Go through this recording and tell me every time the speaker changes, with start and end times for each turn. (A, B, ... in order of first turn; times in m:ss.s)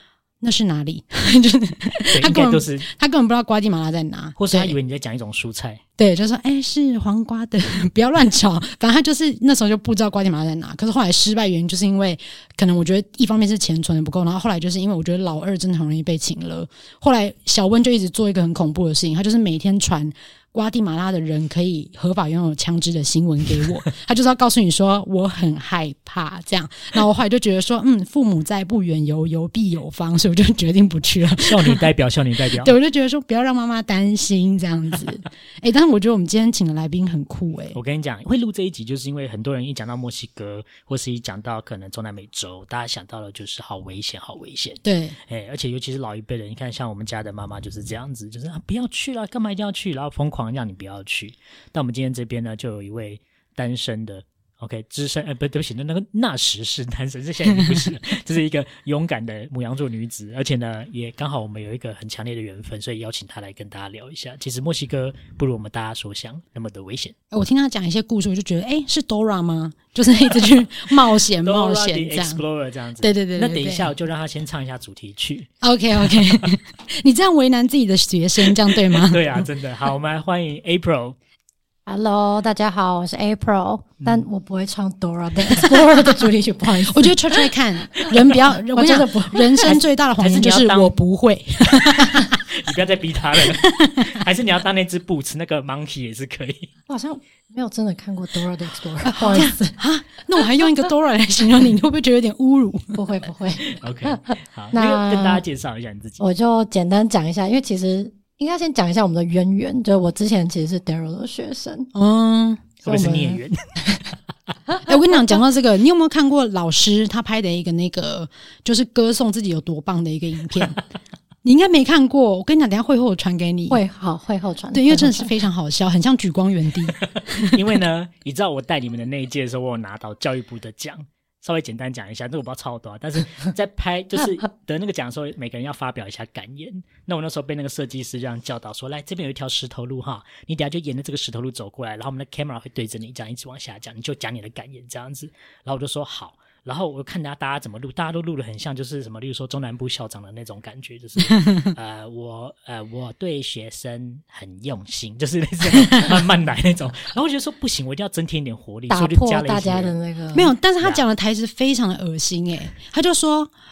0:00.4-0:04.8 A
0:02.1-0:02.9 B
0:04.4-0:05.8 B
0:06.0-0:31.8 A
0:31.4-0:32.7 B
0:32.5-0:37.8 A
0:37.7-1:07.1 B
0:44.8-0:45.2 A
0:57.5-0:57.8 A
1:07.3-1:12.4 A
1:11.4-1:16.5 B
1:13.0-1:13.9 A
1:15.6-1:19.4 A
1:18.7-1:21.2 B
1:21.8-1:29.7 C
1:25.5-1:32.3 A
1:29.6-1:31.0 B
1:31.6-1:36.7 B
1:33.5-1:34.2 A
1:36.9-1:39.8 C
1:39.0-1:43.0 A
1:42.9-1:45.4 C
1:43.7-1:46.2 B
1:46.2-1:51.9 C
1:51.9-1:52.7 A
1:52.8-1:54.1 B
1:52.8-1:53.4 C
1:54.8-2:00.8 A
2:01.4-2:03.8 A
2:03.7-2:05.3 C
2:04.7-2:07.6 A
2:07.0-2:39.9 B
2:31.3-2:31.6 A
2:38.9-2:40.5 C
2:40.3-2:43.5 A